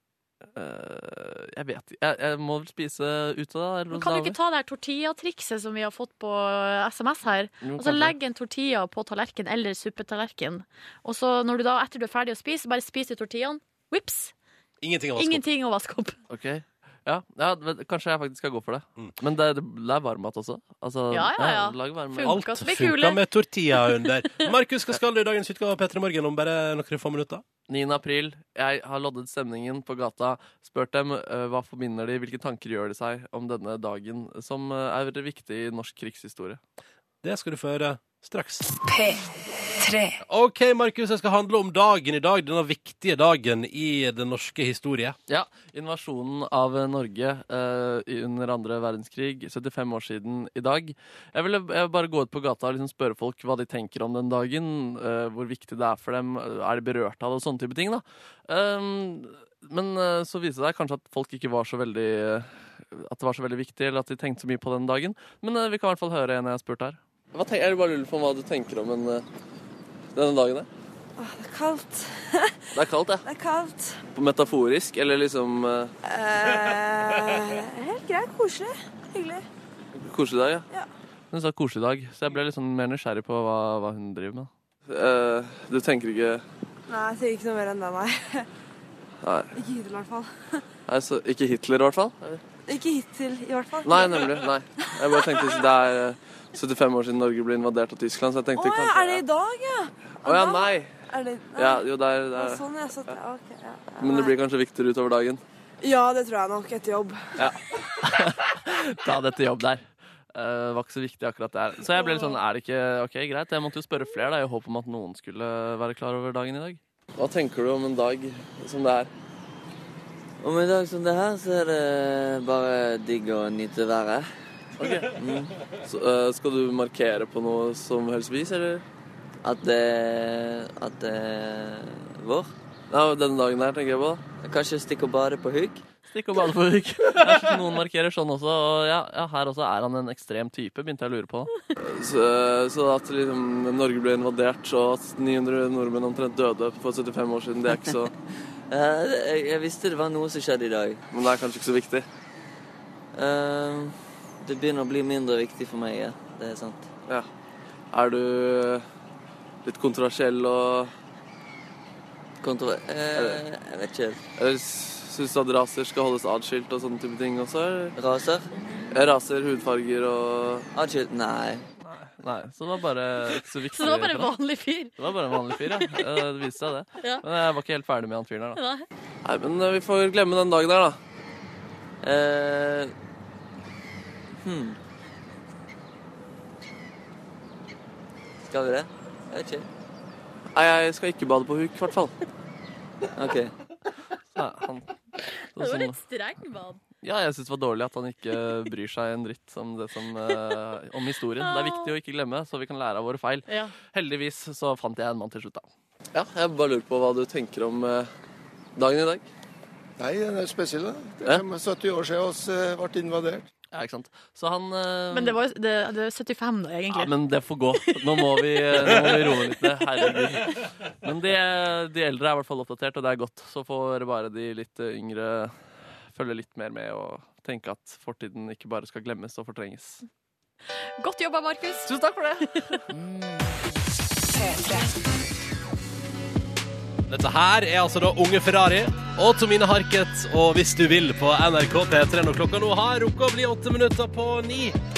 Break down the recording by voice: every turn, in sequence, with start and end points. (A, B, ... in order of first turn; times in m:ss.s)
0:00.5-0:04.4 A
0:03.9-0:14.3 B
0:07.6-0:08.1 A
0:14.8-0:15.4 C
0:15.2-0:16.2 B
0:16.3-0:22.4 A
0:21.1-0:23.2 B
0:22.2-0:27.4 C
0:23.8-0:24.5 B
0:27.7-0:36.6 A
0:37.2-0:38.7 C
0:38.8-0:40.2 D
0:40.2-0:45.2 C
0:45.3-1:09.2 A
1:10.1-1:10.7 A
1:11.2-1:14.0 E
1:12.7-1:13.2 A
1:14.1-1:15.9 A
1:16.0-1:19.4 E
1:19.9-1:20.7 A
1:21.3-1:26.4 A
1:26.9-1:28.5 E
1:29.2-1:29.5 A
1:29.5-1:30.6 E
1:30.9-1:32.4 A
1:32.6-1:35.6 E
1:33.8-1:39.2 A
1:38.5-1:44.3 E
1:40.2-1:40.9 A
1:41.6-1:43.1 A
1:44.0-1:45.4 A
1:45.8-1:47.5 E
1:47.4-1:59.1 A
1:51.9-1:52.4 E
2:00.4-2:04.3 F
2:04.8-2:05.3 A
2:05.1-2:05.5 F
2:05.8-2:08.8 A
2:09.4-2:12.5 F
2:12.9-2:14.2 A
2:14.4-2:15.8 F
2:16.1-2:28.1 A
2:28.7-2:31.0 F
2:31.1-2:32.0 A
2:33.1-2:36.9 F
2:37.9-2:38.8 A
2:39.6-2:40.9 A
2:42.4-2:44.2 F
2:43.1-2:43.4 A
2:44.4-2:47.9 A
2:48.0-2:48.5 F
2:48.9-2:50.7 A
2:50.7-2:51.6 F
2:51.8-2:54.3 A
2:53.7-2:54.9 B
2:55.0-2:58.6 A
2:58.6-2:58.8 B
2:59.2-3:01.0 A
3:02.0-3:02.9 F
3:04.4-3:04.8 F
3:08.4-3:09.7 F
3:10.5-3:12.1 A
3:13.2-3:13.5 F
3:14.3-3:14.9 A
3:15.5-3:16.0 A
3:15.6-3:16.8 B
3:17.0-3:28.1 A
3:21.4-3:21.9 B
3:23.5-3:23.7 B
3:28.8-3:29.2 A
3:30.0-3:33.4 G
3:33.7-3:35.4 A
3:35.1-3:37.1 B
3:36.9-3:45.6 A
3:46.1-3:50.0 A
3:51.0-3:51.9 B
3:51.8-3:52.8 A
3:54.3-3:54.9 D
3:57.1-4:04.8 C